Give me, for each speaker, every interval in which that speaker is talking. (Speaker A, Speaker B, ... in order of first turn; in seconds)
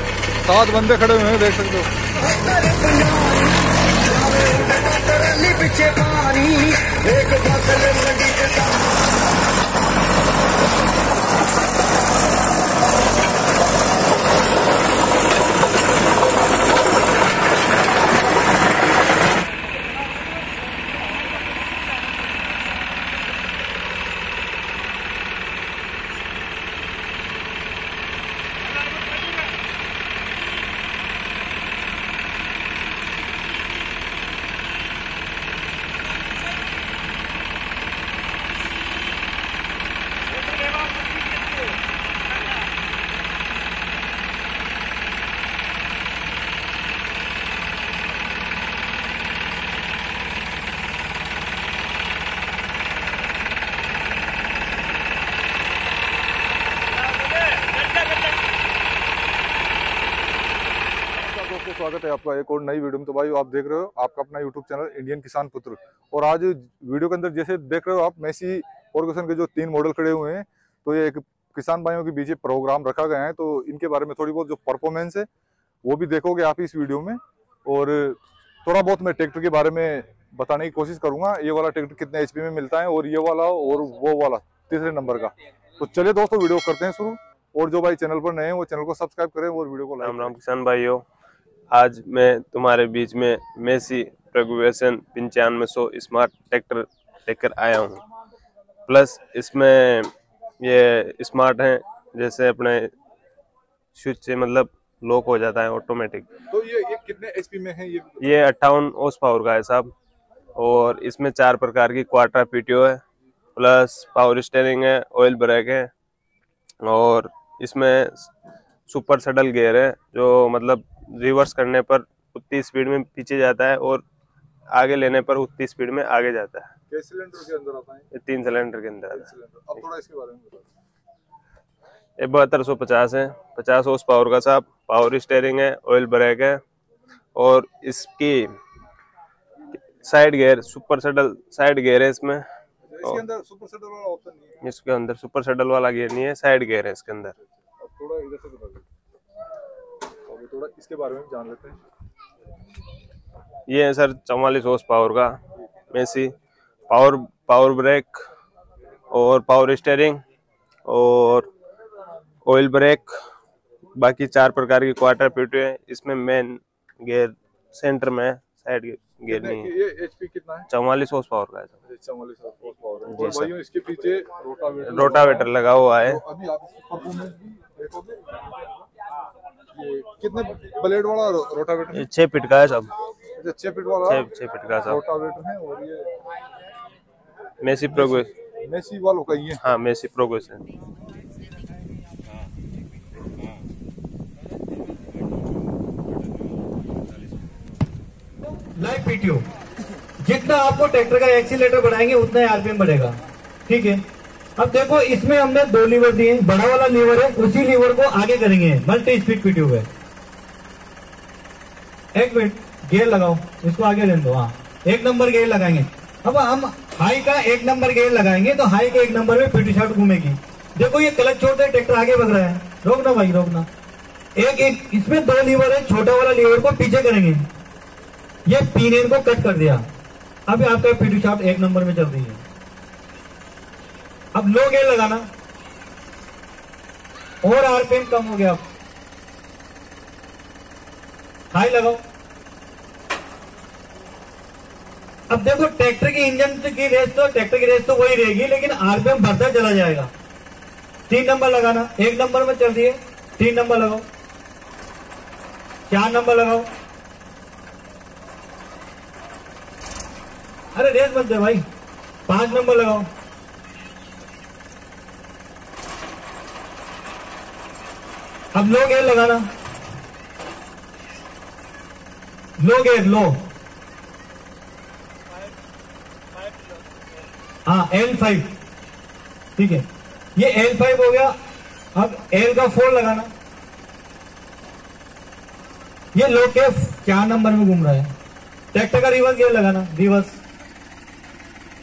Speaker A: 0.5-1.9, 61.2-75.3, 75.8-90.4, 106.5-108.2, 126.9-128.1, 129.1-130.7, 142.8-144.6, 147.6-148.8, 150.3-151.8, 169.3-170.7, 171.9-175.5, 176.0-178.2, 179.8-182.1, 183.4-184.3, 184.9-186.1, 187.9-189.6
Speaker B: 2.2-8.9
Speaker C: 90.0-91.0, 91.7-98.0, 98.9-102.9, 104.0-106.3, 108.2-109.9, 110.6-113.0, 113.5-115.9, 116.8-118.3, 118.9-124.0, 124.8-126.7, 128.1-129.3, 132.2-136.6, 137.4-138.5, 139.7-142.4, 144.6-147.3, 153.7-155.4, 155.9-156.3, 156.9-158.2, 159.1-160.2, 160.9-161.5, 162.4-163.1, 164.0-169.7, 170.7-171.7, 173.1-173.6, 174.8-176.2, 181.9-182.9, 184.1-185.0, 187.6-188.3, 189.6-190.6
Speaker D: 198.8-199.4, 200.2-204.0, 204.6-209.9, 212.2-223.7, 224.4-227.5, 228.5-229.8, 230.5-232.4, 234.3-235.3, 237.4-238.6, 241.5-242.0, 245.3-250.1, 251.1-254.1, 255.9-256.7, 260.7-261.6, 262.3-263.1, 268.5-269.5, 272.6-273.5, 277.7-278.6, 279.6-281.4, 281.9-283.3, 286.1-288.1, 288.7-290.4